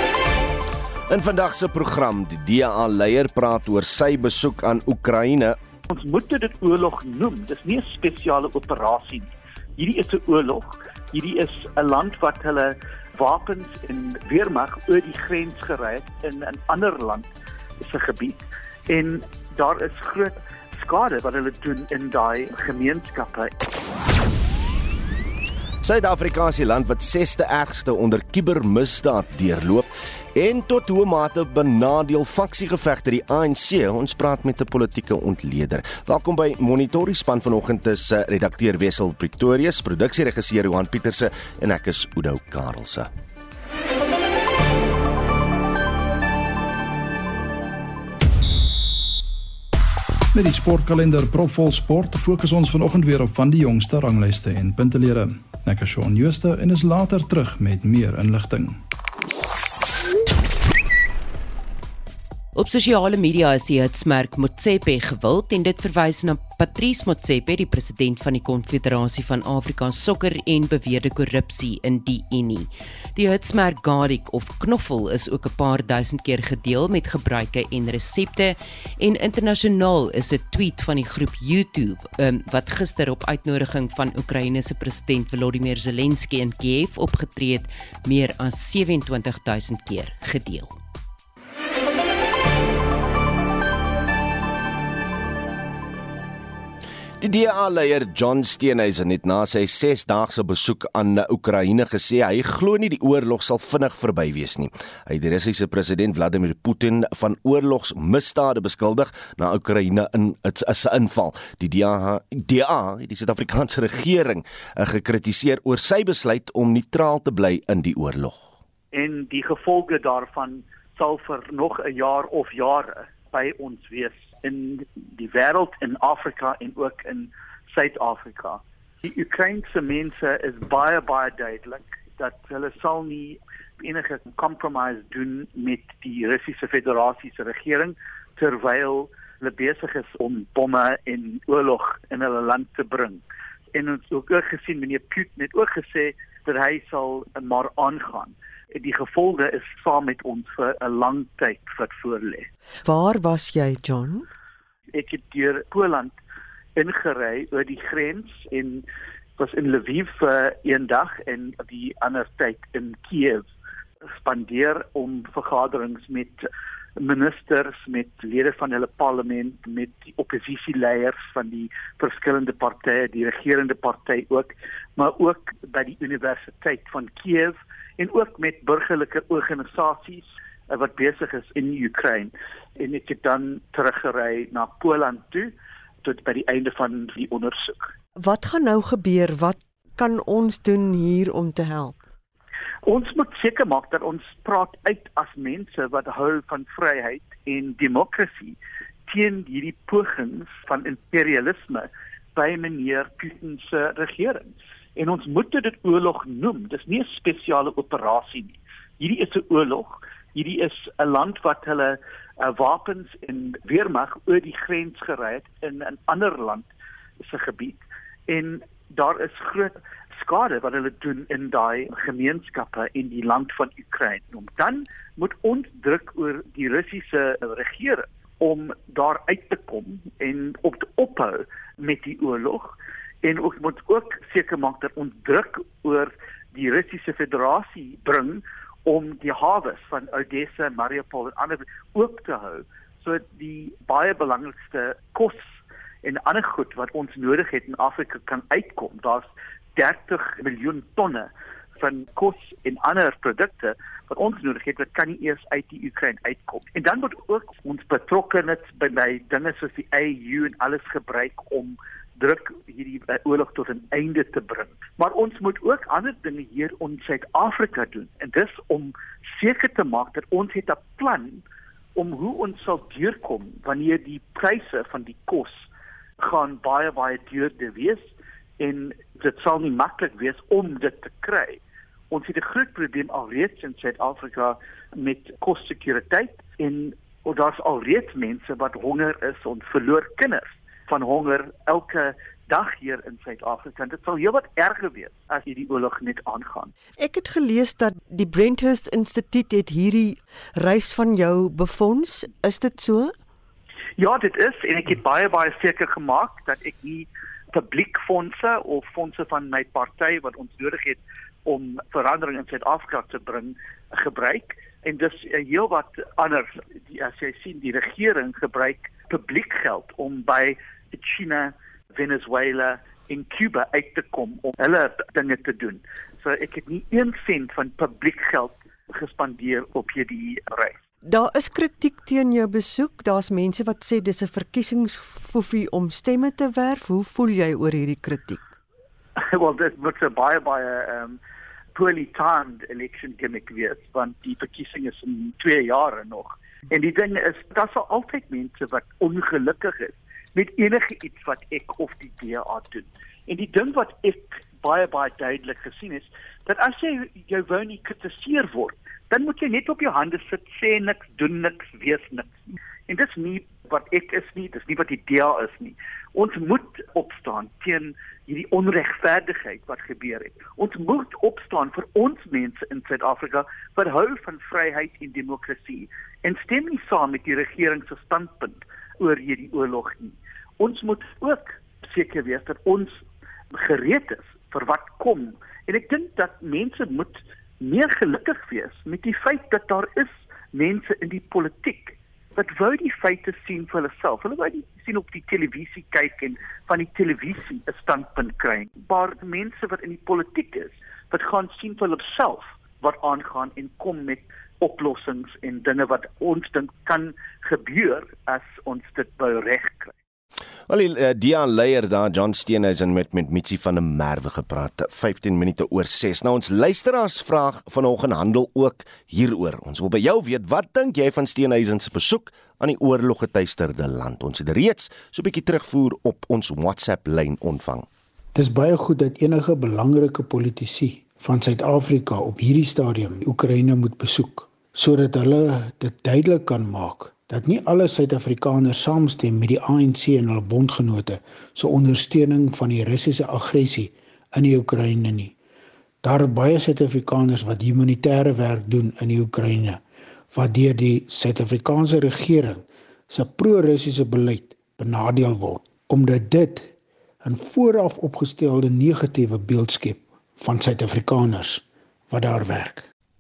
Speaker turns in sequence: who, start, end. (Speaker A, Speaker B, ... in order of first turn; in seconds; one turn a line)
Speaker A: 1.1-5.6
Speaker B: 5.9-17.3
Speaker B: 17.8-23.5
Speaker A: 25.8-43.1
Speaker C: 50.3-58.8
Speaker D: 62.5-90.8
Speaker A: 97.2-118.5
Speaker B: 118.9-143.2
Speaker B: 143.7-152.5
Speaker E: 152.8-154.2
Speaker B: 154.9-156.1
Speaker B: 156.8-158.8
Speaker B: 159.4-163.5
Speaker B: 164.2-185.5
Speaker B: 186.0-187.9
Speaker E: 188.2-191.9
Speaker B: 192.8-198.6
Speaker B: 199.1-216.7
Speaker B: 217.2-271.4
Speaker B: 271.9-275.7
Speaker B: 276.2-296.7
Speaker E: 297.0-303.1
Speaker B: 304.0-330.8
Speaker E: 331.0-338.5
Speaker B: 339.2-341.2
Speaker B: 341.7-409.9
Speaker A: 410.7-427.9
Speaker F: 428.3-445.3
Speaker F: 446.0-456.7
Speaker F: 457.2-462.8